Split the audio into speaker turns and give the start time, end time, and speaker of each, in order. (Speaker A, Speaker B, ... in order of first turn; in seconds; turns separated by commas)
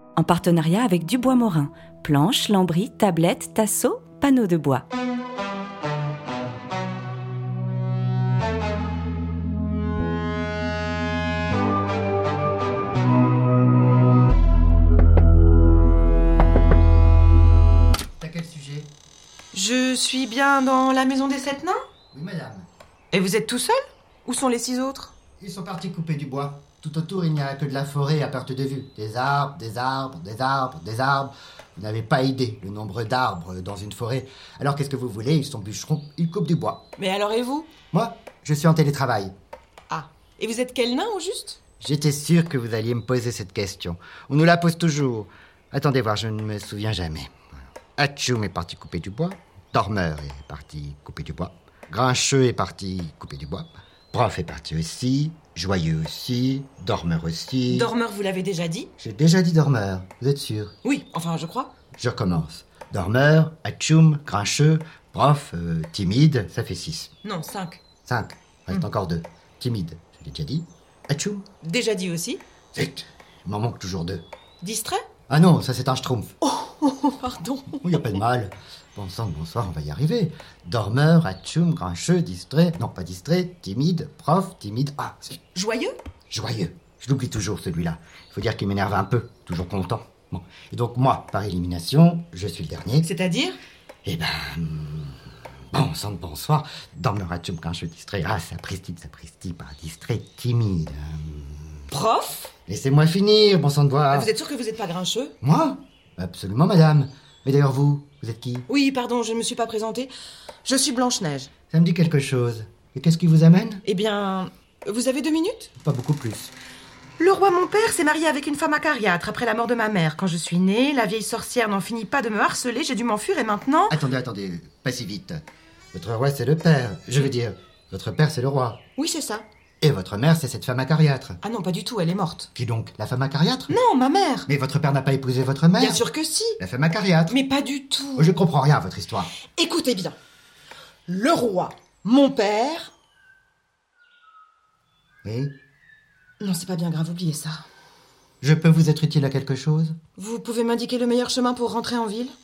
Speaker A: 0.1-4.8, Speaker B: 18.2-18.9, Speaker C: 19.5-21.8, Speaker B: 22.1-22.7, Speaker C: 23.1-25.1, Speaker B: 25.4-36.9, Speaker C: 37.0-37.7, Speaker B: 37.9-39.3, Speaker C: 39.9-41.6, Speaker B: 41.8-57.9, Speaker C: 57.7-58.9, Speaker B: 59.0-60.7, Speaker C: 60.8-61.7, Speaker B: 61.9-67.1, Speaker C: 67.2-67.8, Speaker B: 68.0-71.5, Speaker C: 71.6-72.4, Speaker B: 72.7-74.2, Speaker C: 74.6-75.1, Speaker B: 75.3-76.3, Speaker C: 76.4-78.2, Speaker B: 77.8-85.4, Speaker C: 85.5-86.0, Speaker B: 86.3-93.1, Speaker C: 93.0-93.6, Speaker B: 94.0-101.8, Speaker C: 101.9-102.5, Speaker B: 102.7-104.3, Speaker C: 104.1-105.3, Speaker B: 105.4-108.7, Speaker C: 108.7-110.1, Speaker C: 110.6-111.5, Speaker B: 111.7-113.8, Speaker C: 113.8-115.7, Speaker B: 115.8-116.5, Speaker C: 117.2-124.0, Speaker B: 123.9-128.8, Speaker C: 129.0-129.4, Speaker B: 129.8-131.4, Speaker C: 131.4-132.5, Speaker B: 132.5-133.8, Speaker C: 133.7-134.5, Speaker B: 134.5-136.0, Speaker C: 135.8-136.6, Speaker B: 136.6-137.3, Speaker C: 137.3-138.4, Speaker B: 138.2-139.3, Speaker C: 139.5-140.2, Speaker C: 141.1-142.9, Speaker B: 145.2-145.6, Speaker C: 146.4-147.7, Speaker B: 148.4-150.0, Speaker C: 150.2-152.3